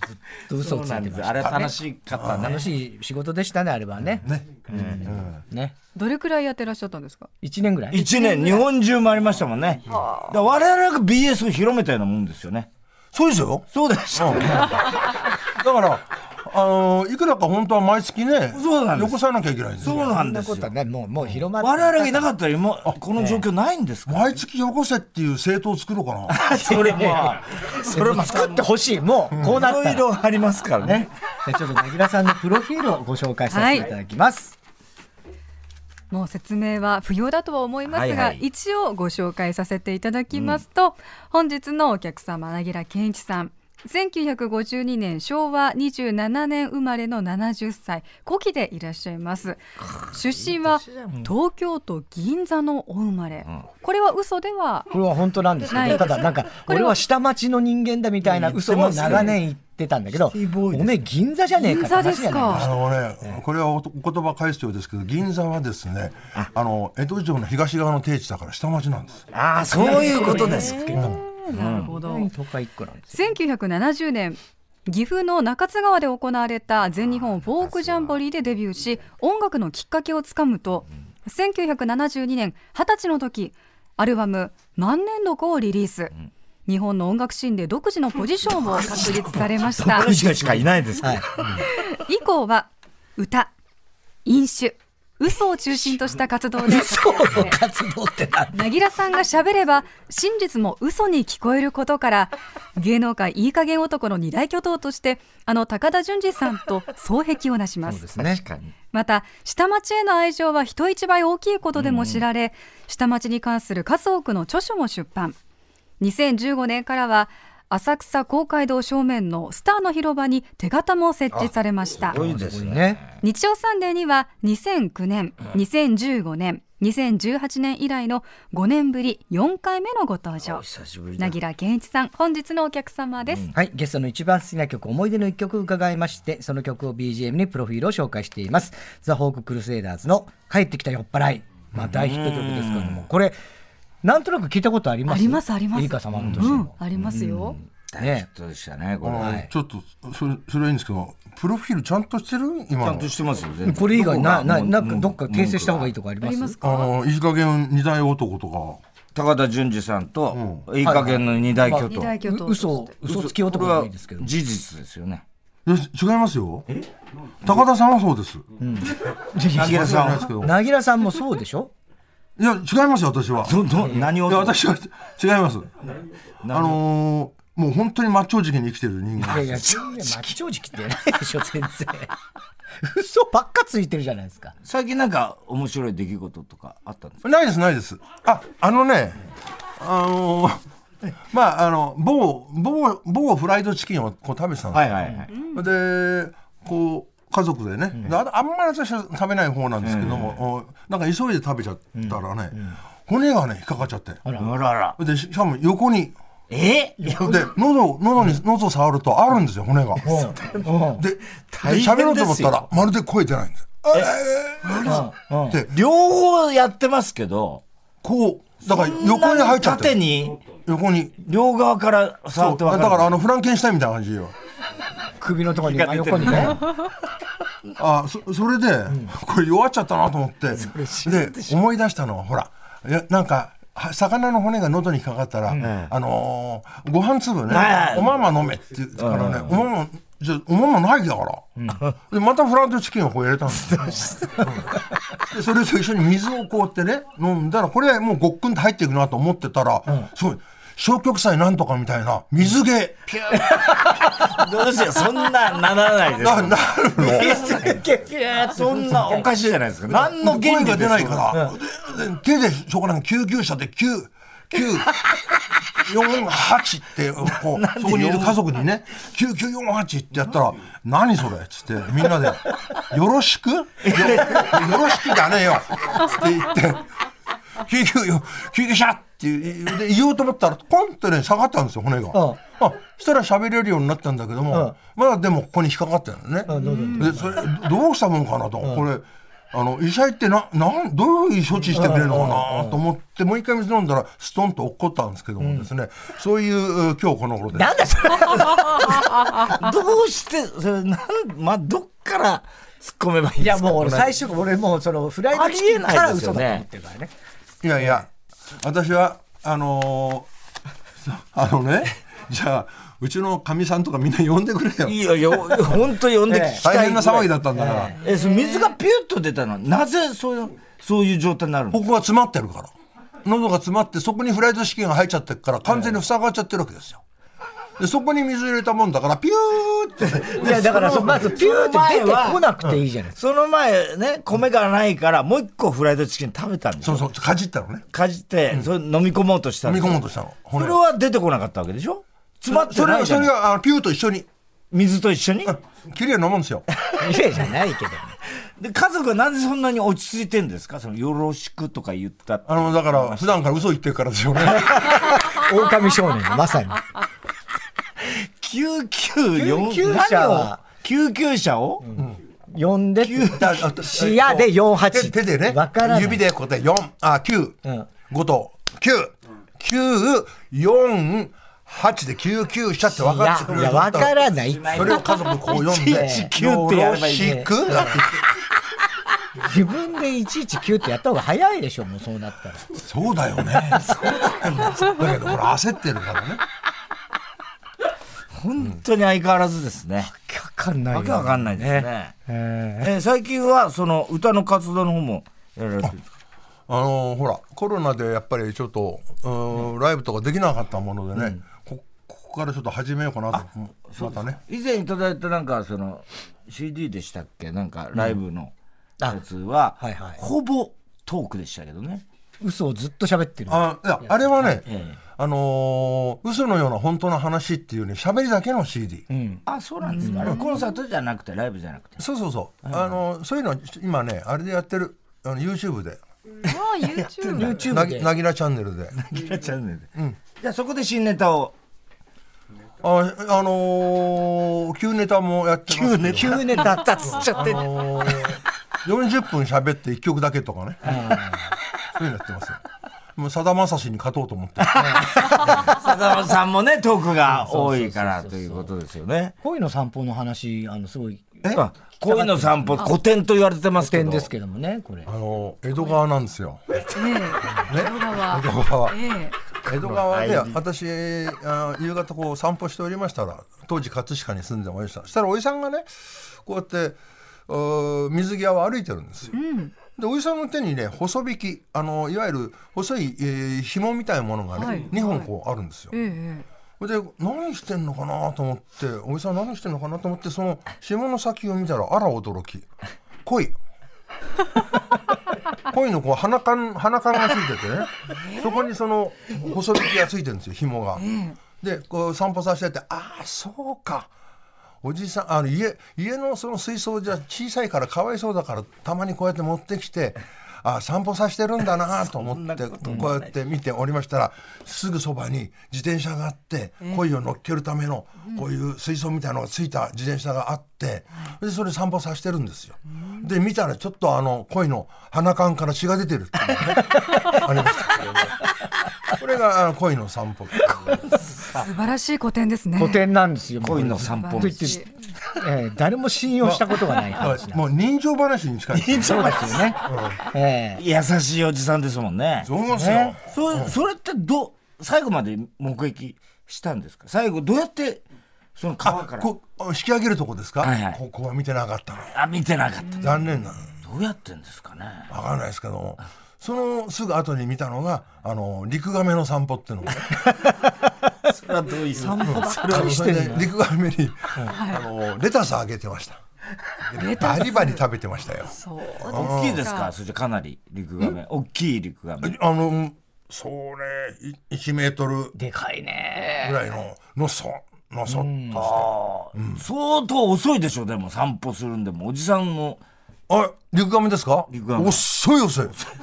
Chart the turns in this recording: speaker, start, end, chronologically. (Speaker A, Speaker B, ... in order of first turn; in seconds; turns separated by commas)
Speaker A: 0.5-1.7, Speaker B: 0.5-2.7, Speaker C: 1.5-2.5, Speaker A: 2.3-5.7, Speaker C: 4.2-5.4, Speaker B: 4.7-5.2, Speaker D: 5.9-7.3, Speaker A: 7.4-8.0, Speaker B: 7.9-12.7, Speaker D: 7.9-8.6, Speaker D: 9.9-10.3, Speaker C: 13.1-20.1, Speaker B: 13.7-15.0, Speaker B: 18.5-19.2, Speaker B: 19.8-20.7, Speaker A: 19.9-22.3, Speaker B: 21.6-24.4, Speaker A: 23.1-23.4, Speaker C: 24.1-26.4, Speaker B: 26.3-28.7, Speaker A: 26.6-30.1, Speaker B: 29.3-31.1, Speaker A: 30.8-34.5, Speaker D: 33.5-33.9, Speaker D: 36.1-54.9, Speaker B: 37.9-38.4, Speaker B: 40.3-40.6, Speaker B: 49.8-51.2, Speaker A: 54.9-62.7, Speaker D: 55.7-57.0, Speaker B: 58.2-59.4, Speaker B: 60.1-61.1, Speaker D: 61.6-62.7, Speaker C: 62.5-69.3, Speaker B: 69.3-71.9, Speaker D: 69.8-72.3, Speaker A: 70.2-70.9, Speaker C: 70.9-71.2, Speaker A: 71.9-73.2, Speaker D: 73.1-86.1, Speaker B: 77.5-78.2, Speaker D: 86.7-90.2, Speaker B: 88.9-91.6, Speaker D: 91.5-93.5, Speaker D: 94.2-97.6, Speaker A: 96.6-98.7, Speaker D: 98.5-108.1, Speaker A: 107.8-108.4, Speaker B: 108.2-108.7, Speaker D: 108.9-115.4, Speaker B: 111.7-112.2, Speaker D: 116.0-122.2, Speaker B: 121.3-123.2, Speaker A: 122.2-123.0, Speaker D: 123.2-130.6, Speaker B: 130.4-131.4, Speaker D: 131.2-133.4, Speaker B: 133.3-133.5, Speaker A: 133.5-143.3, Speaker B: 141.8-143.1, Speaker A: 144.0-148.3, Speaker D: 145.1-147.6, Speaker B: 146.2-149.4, Speaker C: 149.0-153.1, Speaker A: 149.2-149.5, Speaker B: 152.8-155.9, Speaker A: 153.6-156.6, Speaker D: 156.2-156.9, Speaker C: 156.6-158.8, Speaker B: 159.1-162.1, Speaker C: 160.3-160.7, Speaker A: 160.8-164.3, Speaker D: 161.8-162.9, Speaker B: 163.0-165.2, Speaker C: 165.7-166.7, Speaker C: 167.4-168.4, Speaker A: 168.6-171.7, Speaker B: 169.5-170.3, Speaker C: 169.5-170.5, Speaker C: 172.4-175.7, Speaker B: 173.4-174.6, Speaker B: 176.4-176.8, Speaker C: 176.5-179.6, Speaker A: 179.3-182.1, Speaker B: 179.3-180.3, Speaker A: 182.8-184.5, Speaker B: 184.6-187.2, Speaker C: 187.2-190.6, Speaker C: 191.3-204.2, Speaker B: 194.7-195.3, Speaker B: 199.8-200.4, Speaker A: 201.9-202.8, Speaker B: 204.4-205.0, Speaker C: 205.0-206.2, Speaker B: 206.5-207.5, Speaker C: 207.2-210.3, Speaker A: 210.0-211.0, Speaker B: 210.2-210.7, Speaker C: 210.9-215.7, Speaker B: 211.5-212.7, Speaker B: 214.7-215.1, Speaker A: 214.8-215.6, Speaker B: 215.7-217.6, Speaker C: 218.0-221.2, Speaker B: 218.6-220.4, Speaker B: 221.2-223.1, Speaker C: 222.3-224.3, Speaker A: 225.2-226.6, Speaker B: 225.5-226.7, Speaker C: 227.8-241.5, Speaker B: 230.6-231.6, Speaker B: 235.6-235.9, Speaker B: 237.5-238.2, Speaker B: 239.0-239.6, Speaker C: 242.1-253.6, Speaker B: 243.6-244.5, Speaker B: 253.5-261.4, Speaker C: 256.2-257.4, Speaker A: 257.0-259.3, Speaker C: 259.9-264.9, Speaker C: 265.8-276.9, Speaker B: 267.4-268.4, Speaker B: 273.8-274.9, Speaker C: 277.6-297.8, Speaker A: 282.1-282.4, Speaker A: 286.5-287.3, Speaker D: 286.5-287.1, Speaker A: 291.7-292.8, Speaker A: 295.4-295.7, Speaker A: 297.5-299.5, Speaker B: 299.4-304.1, Speaker A: 303.4-307.1, Speaker B: 305.3-306.6, Speaker C: 307.6-310.3, Speaker C: 311.0-315.8, Speaker B: 314.8-317.3, Speaker A: 316.3-316.6, Speaker C: 316.6-317.9, Speaker A: 317.5-317.9, Speaker B: 318.0-321.8, Speaker D: 318.0-318.7, Speaker C: 321.7-322.7, Speaker C: 323.2-327.0, Speaker C: 327.8-331.2, Speaker B: 330.0-332.5, Speaker A: 330.3-333.2, Speaker B: 333.1-337.1, Speaker C: 336.8-337.9, Speaker B: 337.9-340.0, Speaker C: 339.6-340.8, Speaker B: 340.5-343.3, Speaker C: 342.5-344.3, Speaker B: 344.7-345.6, Speaker C: 345.5-346.6, Speaker A: 347.0-348.1, Speaker B: 348.4-353.4, Speaker C: 352.4-355.3, Speaker A: 354.6-356.8, Speaker B: 358.0-361.9, Speaker A: 359.4-360.6, Speaker A: 361.8-366.2, Speaker B: 363.0-363.6, Speaker C: 363.3-378.2, Speaker A: 372.9-375.0, Speaker B: 374.4-378.0, Speaker A: 375.7-376.3, Speaker A: 377.2-377.5, Speaker A: 379.4-382.7, Speaker C: 382.7-386.4, Speaker A: 383.7-384.2, Speaker B: 388.3-390.1, Speaker A: 390.1-392.9, Speaker B: 390.9-392.1, Speaker B: 392.8-396.0, Speaker C: 396.7-404.4, Speaker A: 401.1-401.4, Speaker B: 403.9-408.5, Speaker B: 409.1-412.0, Speaker A: 409.8-410.2, Speaker A: 412.4-414.1, Speaker C: 413.5-414.6, Speaker B: 414.6-415.0, Speaker C: 415.1-419.0, Speaker A: 419.1-419.4, Speaker B: 419.5-422.0, Speaker D: 419.9-420.6, Speaker A: 420.0-420.4, Speaker C: 422.0-426.0, Speaker D: 426.4-427.7, Speaker C: 427.2-429.0, Speaker A: 427.3-428.1, Speaker B: 429.0-429.9, Speaker B: 430.4-431.5, Speaker C: 432.8-441.0, Speaker B: 435.7-438.3, Speaker A: 436.1-437.4, Speaker A: 440.8-441.4, Speaker C: 441.9-442.6, Speaker C: 443.1-444.8, Speaker B: 444.6-449.3, Speaker A: 444.7-445.6, Speaker A: 447.3-448.7, Speaker A: 449.4-451.4, Speaker B: 451.5-454.3, Speaker A: 452.0-452.9, Speaker A: 453.8-455.1, Speaker C: 455.1-457.0, Speaker D: 456.9-459.3, Speaker C: 457.5-459.0, Speaker C: 459.6-469.4, Speaker B: 459.8-460.6, Speaker D: 469.3-469.7, Speaker C: 469.9-475.9, Speaker D: 474.5-475.3, Speaker D: 475.9-476.4, Speaker C: 476.8-482.7, Speaker C: 483.2-483.6, Speaker C: 485.6-491.1, Speaker D: 488.3-488.5, Speaker D: 491.0-491.4, Speaker C: 491.6-494.1, Speaker C: 494.8-518.3, Speaker B: 502.1-503.2, Speaker C: 519.1-521.0, Speaker B: 520.9-521.6, Speaker D: 521.5-523.0, Speaker A: 522.8-527.6, Speaker B: 523.6-524.8, Speaker D: 524.0-524.9, Speaker C: 526.4-530.2, Speaker B: 528.7-530.2, Speaker A: 529.0-529.8, Speaker A: 530.3-530.8, Speaker B: 530.8-532.5, Speaker C: 532.4-533.7, Speaker A: 532.7-533.1, Speaker B: 533.3-538.0, Speaker B: 538.5-539.3, Speaker C: 538.8-542.1, Speaker B: 540.6-541.0, Speaker B: 542.1-545.1, Speaker C: 543.0-543.7, Speaker C: 545.1-550.1, Speaker B: 551.3-553.2, Speaker A: 552.0-553.5, Speaker C: 552.2-556.2, Speaker D: 554.5-554.8, Speaker C: 556.9-559.7, Speaker D: 556.9-557.8, Speaker D: 558.5-559.9, Speaker B: 559.0-562.4, Speaker C: 562.2-565.4, Speaker A: 565.4-566.6, Speaker C: 566.4-569.6, Speaker A: 568.1-568.6, Speaker B: 568.5-572.8, Speaker C: 573.3-575.8, Speaker B: 574.5-575.0